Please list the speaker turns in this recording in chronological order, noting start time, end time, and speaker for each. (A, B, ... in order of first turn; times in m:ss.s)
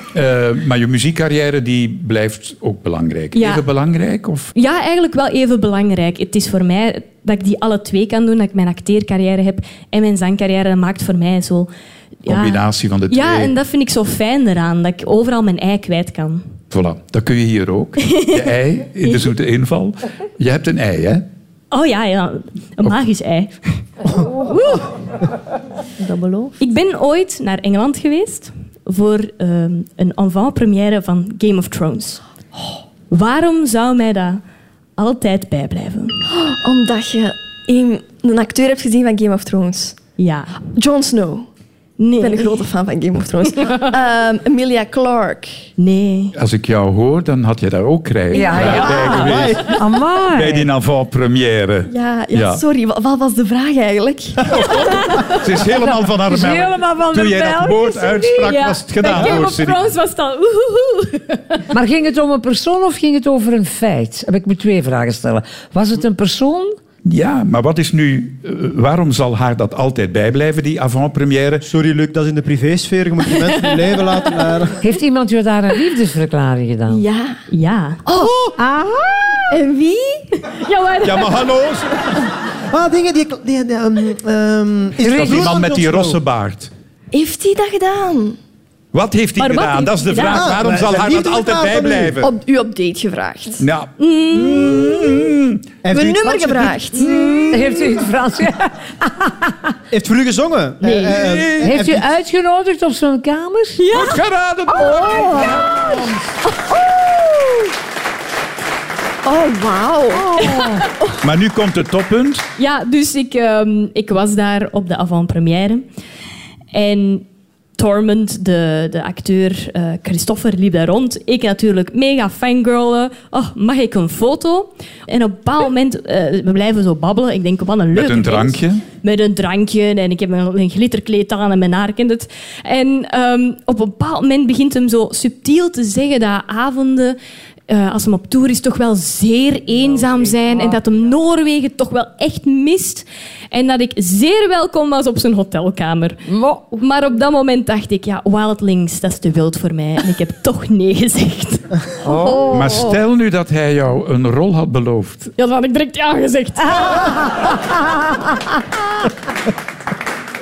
0:00.1-0:04.5 A
0:03.3-0:03.6 B
0:04.5-0:11.7 B
0:12.2-0:16.4 B
0:12.3-0:13.5 A
0:16.7-0:21.2 A
0:18.1-0:18.4 B
0:21.7-0:24.9 B
0:26.0-0:32.2 B
0:33.1-0:34.4 B
0:35.0-0:36.2 B
0:36.3-0:40.0 C
0:40.2-0:40.6 B
0:40.7-0:41.5 C
0:42.0-0:42.6 B
0:42.2-0:45.6 C
0:45.8-0:46.3 B
0:46.3-0:49.8 A
0:48.3-0:50.7 D
0:49.1-0:49.7 E
0:50.3-0:52.6 A
0:51.9-0:55.3 C
0:54.5-0:59.9 A
0:56.2-0:58.5 D
0:58.4-1:01.6 B
1:01.7-1:06.8 D
1:07.0-1:11.7 A
1:11.6-1:14.8 E
1:13.5-1:13.8 B
1:14.8-1:17.0 D
1:16.9-1:17.4 C
1:17.5-1:18.0 B
1:18.0-1:18.4 C
1:18.2-1:18.5 E
1:18.6-1:19.5 D
1:19.5-1:20.4 C
1:20.5-1:21.4 B
1:21.0-1:22.2 A
1:22.7-1:26.2 E
1:25.0-1:25.5 D
1:25.0-1:26.7 A
1:27.1-1:28.4 C
1:28.9-1:32.3 A
1:29.4-1:30.6 B
1:30.3-1:32.2 E
1:32.2-1:33.6 C
1:33.6-1:35.7 A
1:34.0-1:35.2 B
1:35.8-1:36.8 E
1:35.9-1:37.1 C
1:37.0-1:37.9 A
1:37.5-1:39.7 D
1:39.9-1:42.0 E
1:41.0-1:41.8 A
1:41.6-1:43.8 D
1:43.8-1:44.2 B
1:43.9-1:46.1 A
1:44.8-1:45.9 C
1:46.6-1:47.3 C
1:49.2-1:51.1 C
1:50.2-1:50.8 D
1:50.5-1:50.8 B
1:51.2-1:52.4 A
1:52.6-1:55.8 B
1:56.7-1:57.2 B
1:57.8-2:31.8 B
2:07.9-2:08.8 A
2:26.3-2:26.6 D
2:32.0-2:32.9 D
2:32.5-2:35.3 A
2:35.4-2:37.3 B